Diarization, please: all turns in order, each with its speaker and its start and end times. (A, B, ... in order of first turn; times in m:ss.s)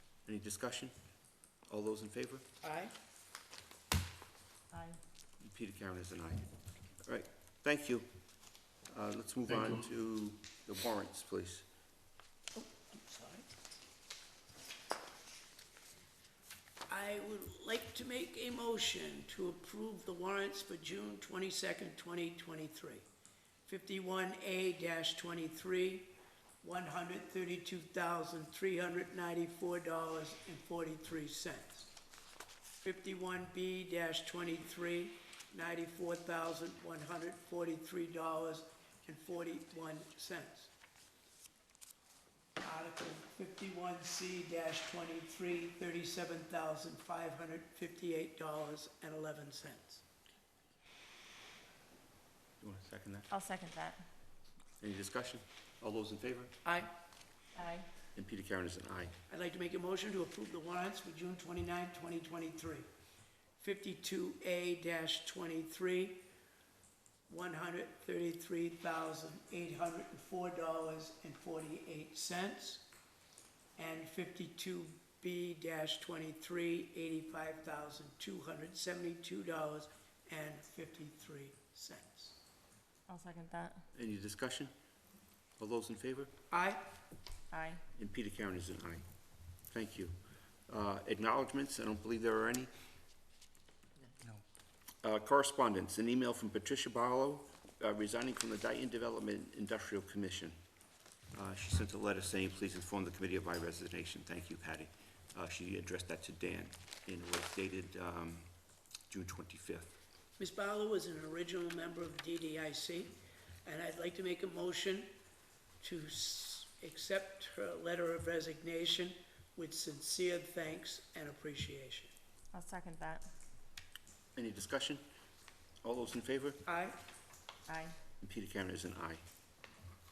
0:00.2-0:00.9 A
0:01.7-0:02.4 A
0:02.6-0:02.9 B
0:04.7-0:05.0 C
0:05.4-0:06.5 A
0:07.0-0:08.1 A
0:08.9-0:11.6 A
0:12.5-0:13.6 B
0:16.9-0:23.0 B
0:23.6-0:31.9 B
0:32.8-0:40.7 B
0:42.6-0:50.0 B
0:52.6-0:53.3 A
0:53.3-0:54.0 C
0:54.8-0:56.5 A
0:56.6-0:56.9 B
0:57.5-0:57.9 C
0:58.1-0:59.2 A
0:59.3-1:02.8 B
1:03.6-1:06.2 B
1:07.3-1:12.9 B
1:13.8-1:22.4 B
1:23.1-1:23.8 C
1:23.9-1:24.7 A
1:25.6-1:26.3 A
1:26.5-1:26.8 B
1:27.5-1:27.8 C
1:28.0-1:29.0 A
1:29.7-1:30.2 A
1:30.7-1:32.7 A
1:35.0-1:40.5 A
1:41.3-1:48.5 A
1:49.1-1:49.9 A
1:50.4-1:55.1 B
1:55.8-2:02.1 B
2:02.5-2:03.2 C
2:04.3-2:05.0 A
2:05.8-2:06.6 A
2:06.6-2:07.0 B
2:07.7-2:07.9 C
2:08.2-2:09.2 A